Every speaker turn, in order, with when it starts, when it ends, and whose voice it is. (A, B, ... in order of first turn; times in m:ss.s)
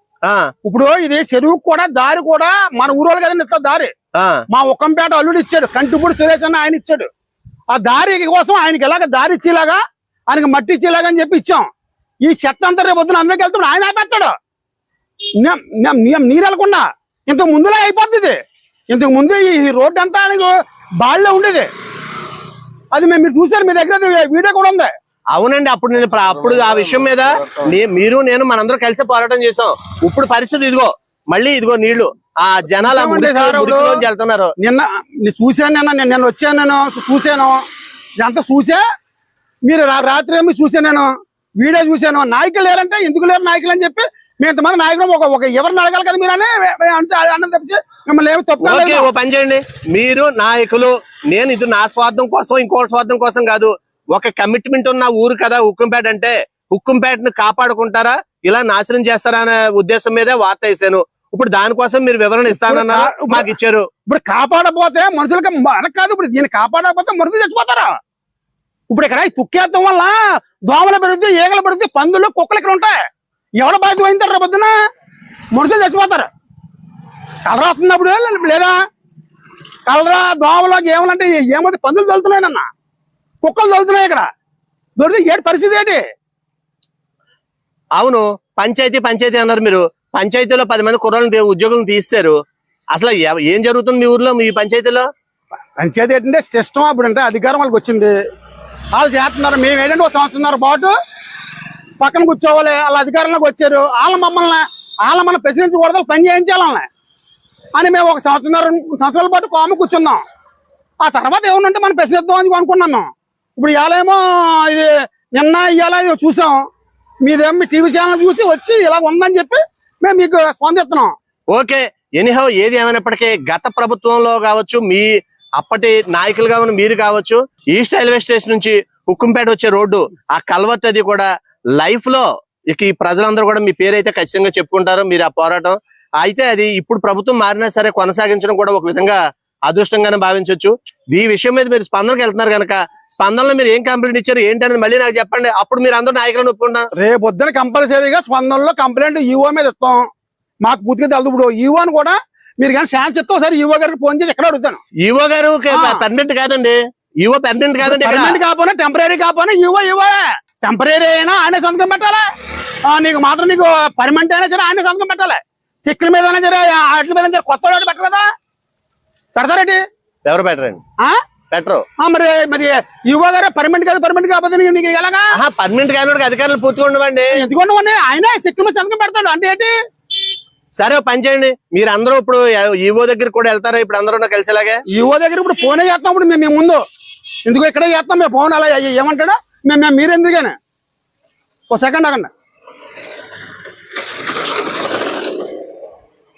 0:00.2-0:00.5 A
0:00.6-0:03.9 B
0:04.1-0:04.4 A
0:04.5-0:07.1 B
0:07.7-0:11.7 B
0:12.2-0:14.3 B
0:15.4-0:18.4 B
0:18.9-0:21.7 B
0:22.9-0:24.9 B
0:25.3-0:34.5 A
0:32.8-0:34.0 B
0:34.6-0:37.6 B
0:38.2-0:38.8 B
0:39.6-0:49.1 B
0:48.6-1:03.9 A
1:02.5-1:03.5 B
1:04.1-1:07.9 B
1:08.9-1:13.0 B
1:13.6-1:14.7 B
1:15.5-1:16.3 B
1:17.4-1:18.8 B
1:19.8-1:22.7 B
1:23.4-1:24.3 B
1:25.0-1:26.0 B
1:28.0-1:32.4 A
1:32.9-1:35.1 A
1:35.8-1:38.1 B
1:38.9-1:40.9 B
1:42.0-1:46.9 B
1:47.7-1:50.2 B
1:51.0-1:56.6 B
1:57.2-2:01.1 B
2:01.5-2:26.9 A
2:27.0-2:30.0 B
2:30.6-2:34.8 B
2:35.0-2:38.4 A
2:35.7-2:36.0 B
2:37.8-2:42.2 B
2:42.9-2:48.2 B
2:49.3-2:49.8 B
2:50.2-2:50.8 A
2:51.5-2:51.8 A
2:52.0-2:55.3 B
2:55.3-2:57.4 A
2:57.3-2:59.7 B
3:00.8-3:04.8 A
3:04.9-3:06.8 B
3:07.4-3:10.6 B
3:11.7-3:12.3 B